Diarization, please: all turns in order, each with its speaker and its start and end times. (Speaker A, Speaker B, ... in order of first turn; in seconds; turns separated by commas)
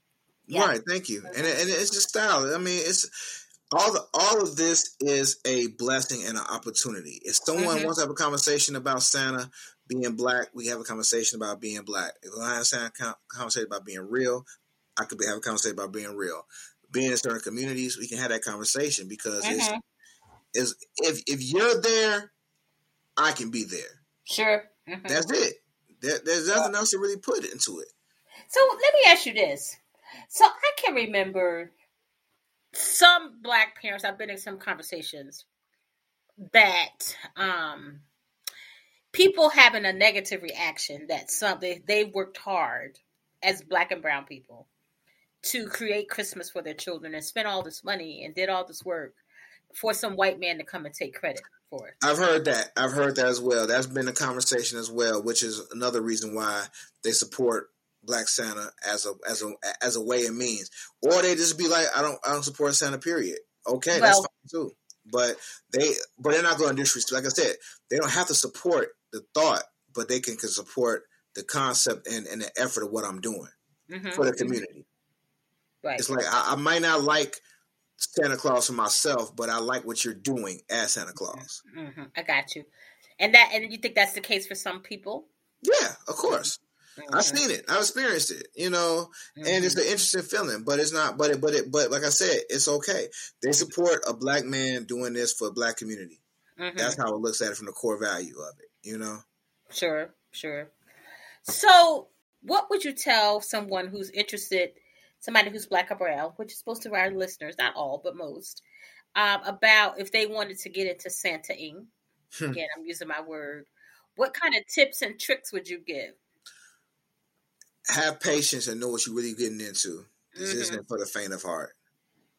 Speaker A: 0.5-3.1, Speaker B: 0.5-0.8, Speaker B: 1.3-1.6, Speaker A: 3.7-14.4, Speaker B: 7.6-7.9, Speaker A: 15.0-19.7, Speaker B: 19.4-19.8, Speaker A: 20.5-22.3, Speaker A: 23.2-24.0, Speaker B: 24.3-25.2, Speaker A: 25.1-27.9, Speaker B: 28.5-31.7, Speaker B: 32.7-35.5, Speaker B: 36.5-38.0, Speaker B: 39.1-44.7, Speaker B: 45.4-49.2, Speaker B: 49.7-52.0, Speaker A: 52.0-73.5, Speaker B: 63.9-64.3, Speaker B: 73.9-74.6, Speaker A: 74.1-74.9, Speaker A: 76.0-77.4, Speaker A: 78.0-81.6, Speaker B: 81.3-82.7, Speaker B: 83.2-85.3, Speaker A: 85.6-86.6, Speaker B: 87.0-87.4, Speaker A: 87.1-96.2, Speaker B: 89.4-89.8, Speaker B: 96.6-97.0, Speaker A: 96.8-99.2, Speaker B: 99.7-100.7, Speaker B: 101.5-108.6, Speaker B: 109.2-111.9, Speaker B: 112.5-116.2, Speaker A: 117.9-121.7, Speaker B: 120.3-120.8